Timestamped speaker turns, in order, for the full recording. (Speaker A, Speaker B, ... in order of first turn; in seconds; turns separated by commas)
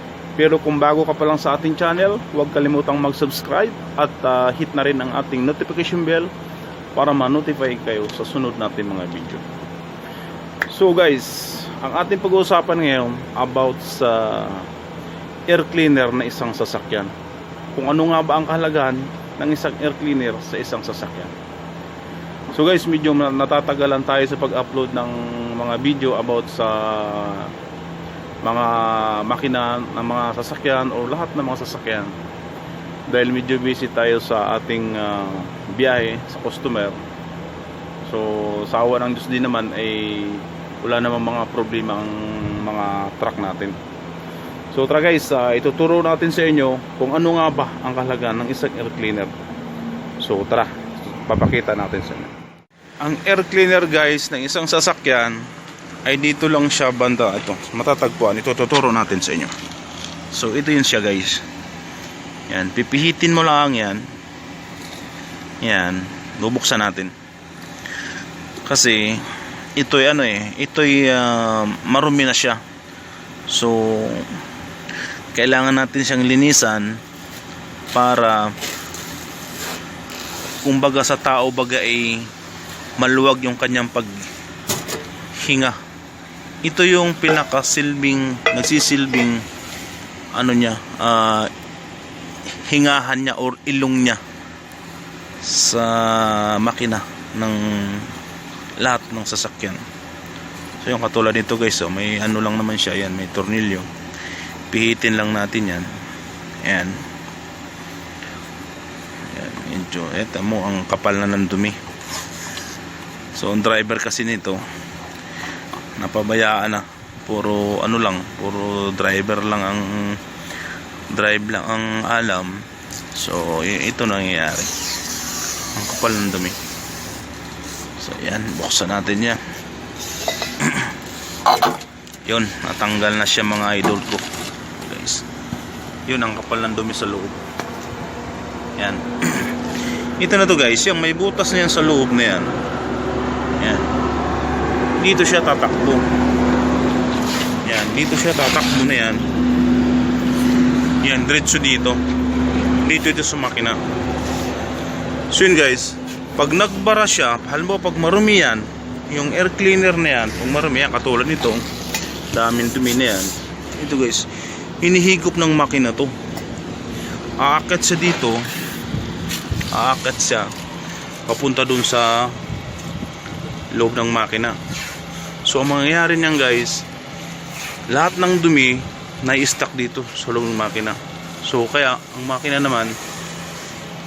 Speaker A: 0.3-6.3, Speaker A: 6.9-9.5, Speaker A: 10.7-14.7, Speaker A: 15.5-17.1, Speaker A: 17.7-21.3, Speaker A: 22.5-27.5, Speaker A: 28.4-32.1, Speaker A: 33.1-37.0, Speaker A: 38.0-43.8, Speaker A: 44.7-49.3, Speaker A: 50.2-52.3, Speaker A: 53.0-55.5, Speaker A: 56.0-59.5, Speaker A: 60.3-61.5, Speaker A: 62.5-64.1, Speaker A: 65.6-67.1, Speaker A: 68.6-72.6, Speaker A: 73.5-74.4, Speaker A: 75.3-77.0, Speaker A: 77.9-78.5, Speaker A: 80.6-82.3, Speaker A: 83.0-84.3, Speaker A: 85.4-85.8, Speaker A: 86.6-89.5, Speaker A: 90.3-91.5, Speaker A: 92.5-94.2, Speaker A: 95.4-98.1, Speaker A: 98.8-99.8, Speaker A: 100.8-103.9, Speaker A: 104.7-105.9, Speaker A: 106.6-107.0, Speaker A: 109.3-111.8, Speaker A: 113.3-114.6, Speaker A: 116.0-120.2, Speaker A: 121.1-124.8, Speaker A: 125.7-126.6, Speaker A: 128.0-129.4, Speaker A: 130.6-130.9, Speaker A: 132.2-135.2, Speaker A: 136.1-137.4, Speaker A: 138.8-139.6, Speaker A: 140.2-142.6, Speaker A: 143.6-143.9, Speaker A: 145.0-146.0, Speaker A: 147.6-149.3, Speaker A: 151.0-152.0, Speaker A: 152.8-153.8, Speaker A: 155.3-161.7, Speaker A: 162.3-166.2, Speaker A: 167.4-168.5, Speaker A: 169.7-170.5, Speaker A: 171.3-172.4, Speaker A: 173.7-174.6, Speaker A: 175.4-176.8, Speaker A: 177.9-182.9